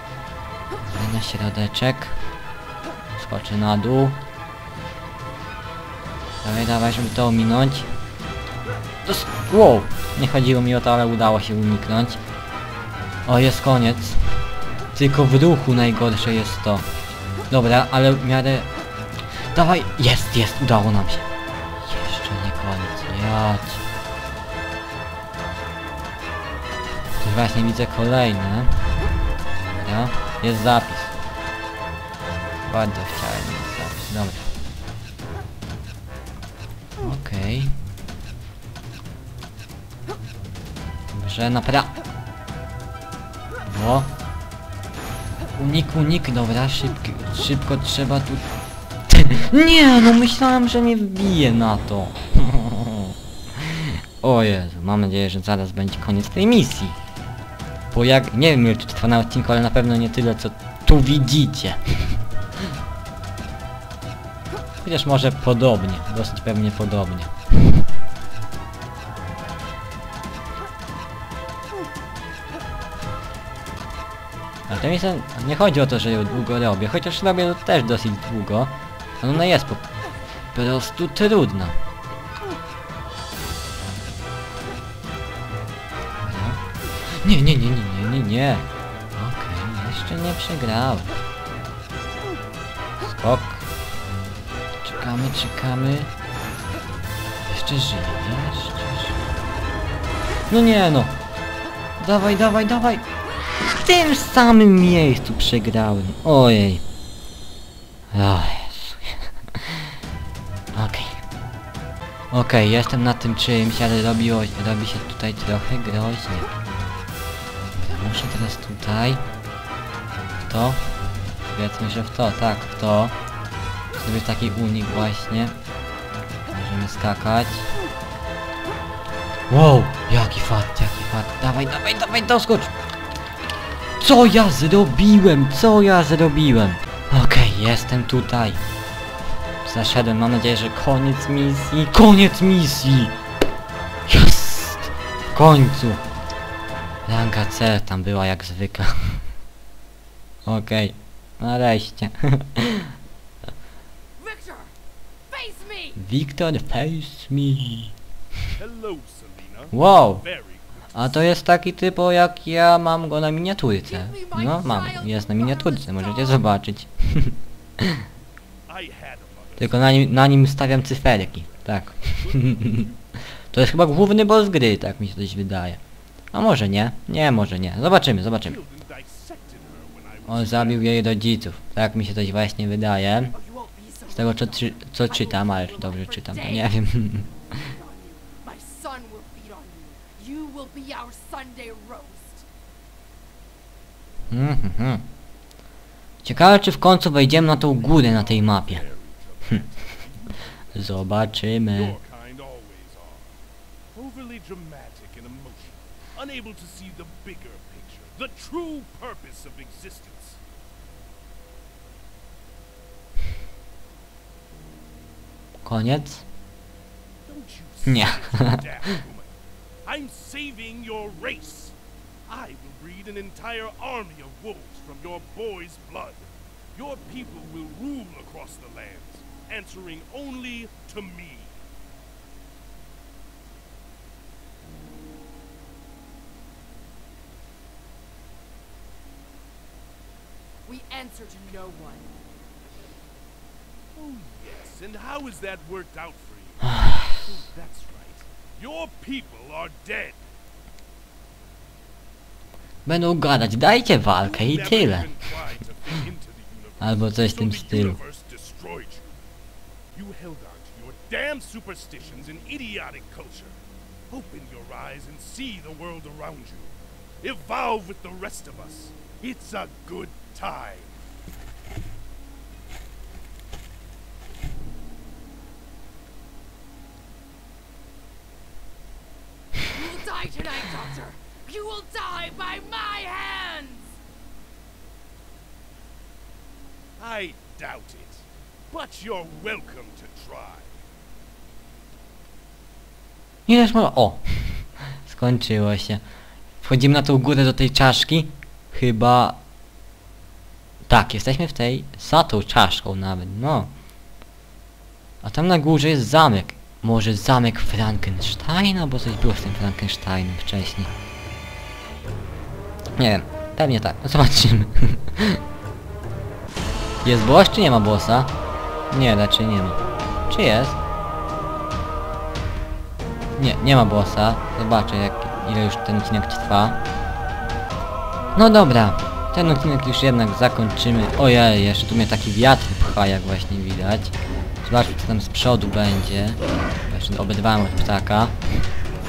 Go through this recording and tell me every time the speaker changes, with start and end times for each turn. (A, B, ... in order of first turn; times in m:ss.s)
0:00.8-0:02.2 A
0:03.2-0:04.2 A
0:06.4-0:07.9 A
0:09.0-0:12.2 A
0:13.3-0:14.4 A
0:14.9-0:16.9 A
0:17.5-0:18.7 A
0:19.4-0:21.3 A
0:21.8-0:23.8 A
0:27.2-0:31.1 A
0:32.7-0:34.5 A
0:37.0-0:37.8 A
0:41.1-0:41.9 A
0:43.6-0:44.1 A
0:45.5-0:48.4 A
0:49.1-0:57.0 A
0:57.9-1:02.2 A
1:04.8-1:07.8 A
1:14.7-1:19.9 A
1:20.5-1:21.8 A
1:26.2-1:31.2 A
1:33.0-1:33.6 A
1:34.8-1:36.1 A
1:37.5-1:39.2 A
1:40.5-1:41.2 A
1:42.0-1:43.1 A
1:43.8-1:46.8 A
1:48.1-1:50.0 A
1:50.7-1:51.2 A
1:52.3-1:56.5 A
1:57.8-1:59.2 A
2:00.4-2:00.8 A
2:01.5-2:03.2 A
2:04.0-2:05.6 A
2:06.5-2:07.7 A
2:09.5-2:12.7 A
2:14.0-2:18.6 A
2:19.6-2:23.2 A
2:24.1-2:26.0 A
2:27.1-2:29.2 A
2:30.5-2:32.9 A
2:34.2-2:34.7 B
2:35.3-2:36.0 B
2:36.0-2:37.9 A
2:38.6-2:41.3 C
2:39.7-2:40.3 A
2:40.9-2:48.0 A
2:43.9-2:46.5 B
2:48.7-2:50.1 C
2:49.6-2:52.9 A
2:50.9-2:53.1 C
2:53.5-2:55.8 A
2:56.3-2:58.6 A
2:58.4-3:01.0 C
3:00.3-3:03.3 A
3:03.3-3:06.8 B
3:04.1-3:07.3 A
3:07.5-3:12.5 B
3:14.3-3:15.0 A
3:16.2-3:18.8 A
3:17.7-3:23.4 C
3:20.7-3:22.0 A
3:23.9-3:30.4 C
3:35.6-3:36.3 A
3:37.2-3:51.6 C
3:37.9-3:38.6 A
4:00.7-4:02.1 B
4:03.9-4:10.2 C
4:06.8-4:07.2 A
4:12.9-4:15.1 A
4:14.2-4:19.1 C
4:16.8-4:18.0 A
4:19.9-4:31.0 C
4:39.7-4:44.0 B
4:47.0-4:50.8 C
4:53.5-4:56.0 A
4:56.6-4:59.4 A
5:00.9-5:03.7 A
5:05.2-5:10.9 A
5:13.0-5:15.4 A
5:17.0-5:18.3 A
5:18.9-5:20.8 A
5:23.4-5:26.8 A
5:28.4-5:38.4 A